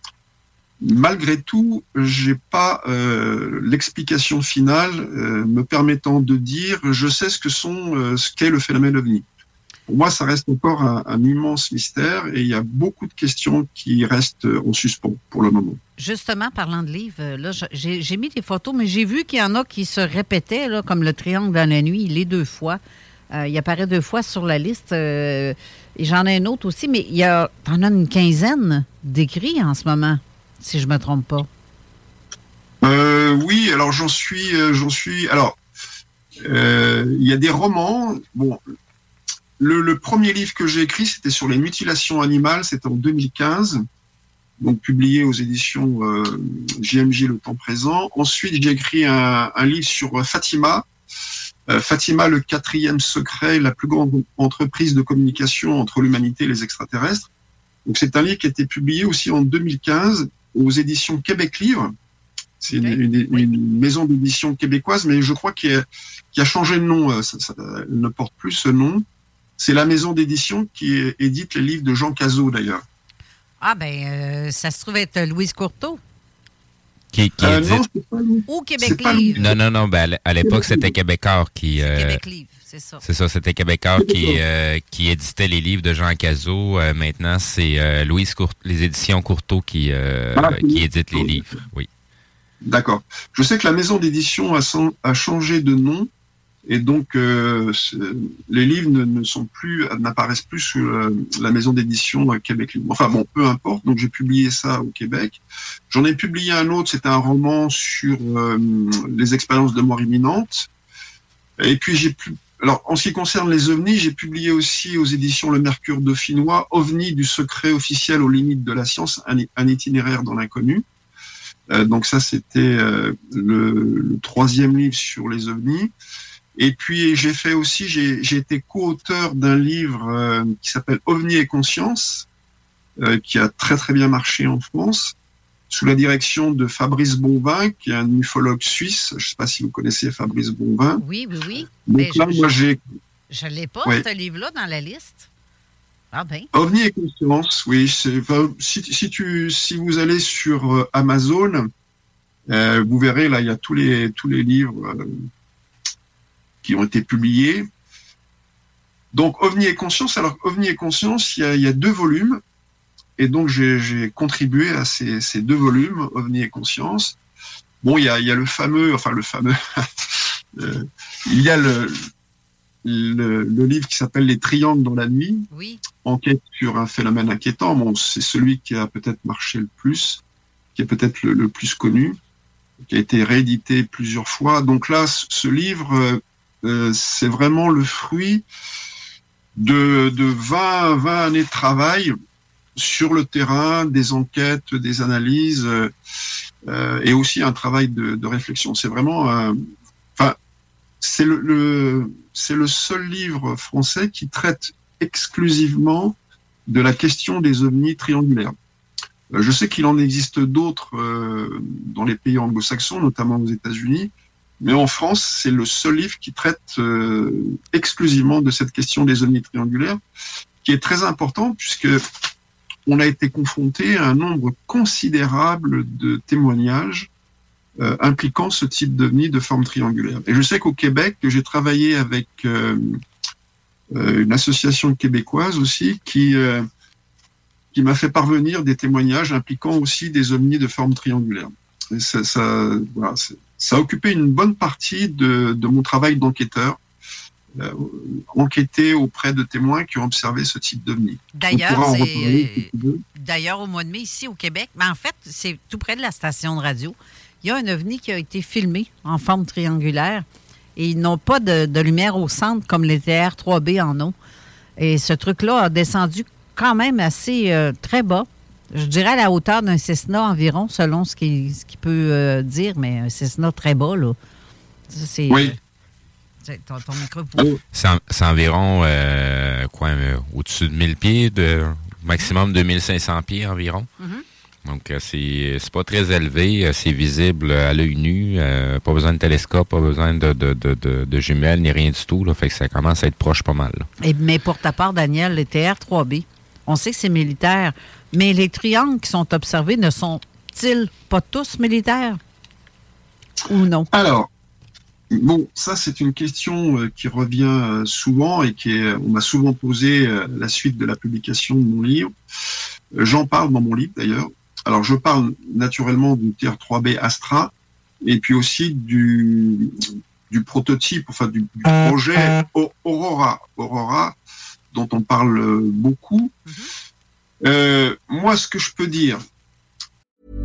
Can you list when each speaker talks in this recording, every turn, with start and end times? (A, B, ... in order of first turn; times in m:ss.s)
0:00.8-0:09.2 A
0:09.9-0:15.8 A
0:16.0-0:22.8 B
0:23.3-0:31.5 B
0:32.8-0:35.6 A
0:36.4-0:38.6 A
0:39.6-0:43.8 A
0:44.6-0:50.8 A
0:51.7-0:57.3 A
0:57.8-1:01.9 A
1:02.6-1:09.0 A
1:02.7-1:03.5 B
1:09.6-1:12.8 A
1:13.6-1:16.0 B
1:17.1-1:17.8 C
1:17.4-1:19.6 A
1:18.5-1:19.4 B
1:19.4-1:22.2 C
1:20.4-1:20.9 A
1:21.8-1:23.0 B
1:23.0-1:31.9 C
1:24.0-1:24.4 A
1:30.3-1:31.6 A
1:32.6-1:36.1 A
1:36.6-1:50.7 A
1:51.6-2:00.8 A
2:01.7-2:05.9 A
2:06.6-2:12.2 A
2:13.0-2:15.1 A
2:15.7-2:21.0 A
2:21.0-2:22.5 B
2:21.8-2:22.8 A
2:23.3-2:25.3 B
2:26.1-2:26.5 B
2:26.5-2:31.7 A
2:32.5-2:35.2 A
2:36.6-2:37.7 A
2:39.1-2:42.4 A
2:43.2-2:47.2 A
2:47.8-2:51.9 A
2:52.8-2:55.5 A
2:55.5-2:55.8 B
2:56.0-3:00.2 A
3:00.7-3:02.2 A
3:02.8-3:08.4 A
3:09.6-3:12.1 A
3:12.8-3:15.9 A
3:16.7-3:19.6 A
3:21.0-3:26.2 A
3:26.7-3:28.5 A
3:29.3-3:40.0 A
3:40.6-3:42.0 A
3:42.9-3:47.1 A
3:47.8-3:53.0 A
3:53.9-3:56.6 A
3:57.7-4:06.8 A
4:07.6-4:13.0 A
4:11.3-4:20.2 B
4:20.8-4:24.1 B
4:24.8-4:34.2 B
4:34.9-4:35.6 B
4:35.3-4:35.6 A
4:36.4-4:37.5 B
4:37.4-4:37.6 A
4:37.7-4:43.9 C
4:44.0-4:44.2 B
4:44.6-4:53.9 C
4:54.0-5:02.2 B
5:03.5-5:03.9 B
5:03.9-5:04.3 A
5:05.1-5:12.1 A
5:13.0-5:19.8 A
5:20.3-5:24.2 A
5:24.7-5:26.3 A
5:27.4-5:29.2 A